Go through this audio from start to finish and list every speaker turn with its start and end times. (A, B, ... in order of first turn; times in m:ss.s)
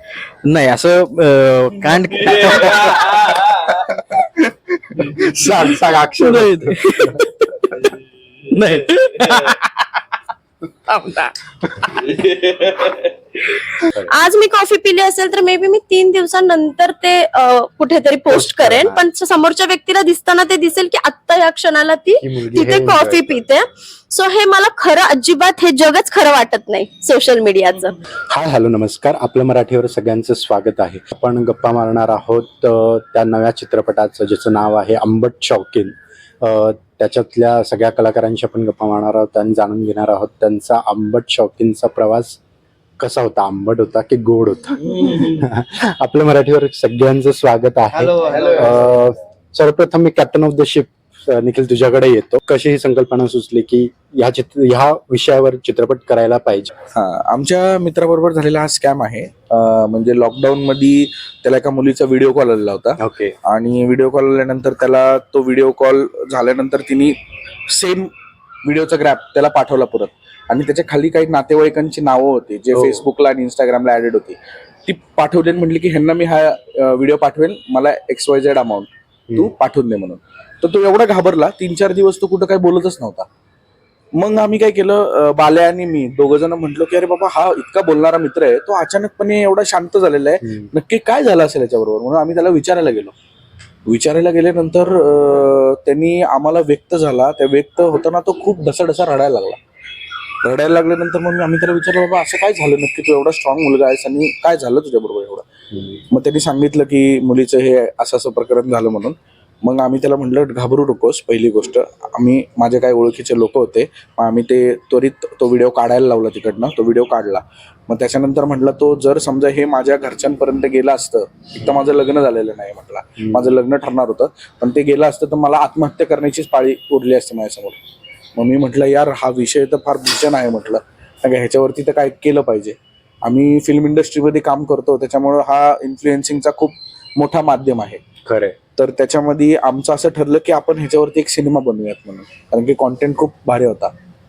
0:00.4-0:03.1 A
0:02.9-0:03.4 B
0:03.9-0:07.0 C
0:05.0-0:07.9 A
0:08.5-0:09.7 A
0:10.9-0:11.4 A
0:13.8-0:14.1 C
0:14.2-0:27.9 D
0:18.3-0:19.0 C
0:22.2-0:23.5 C
0:28.3-0:42.4 C
0:43.0-0:56.7 C
0:56.9-1:07.2 B
1:03.0-1:03.3 C
1:07.7-1:08.1 B
1:08.6-1:23.3 B
1:12.7-1:13.0 C
1:24.1-1:33.1 B
1:30.4-1:30.7 C
1:33.9-1:39.6 B
1:40.4-1:45.4 B
1:45.7-1:46.0 C
1:46.1-2:07.8 B
2:03.2-2:03.5 C
2:08.4-2:18.0 B
2:18.3-2:18.5 C
2:18.8-2:23.9 B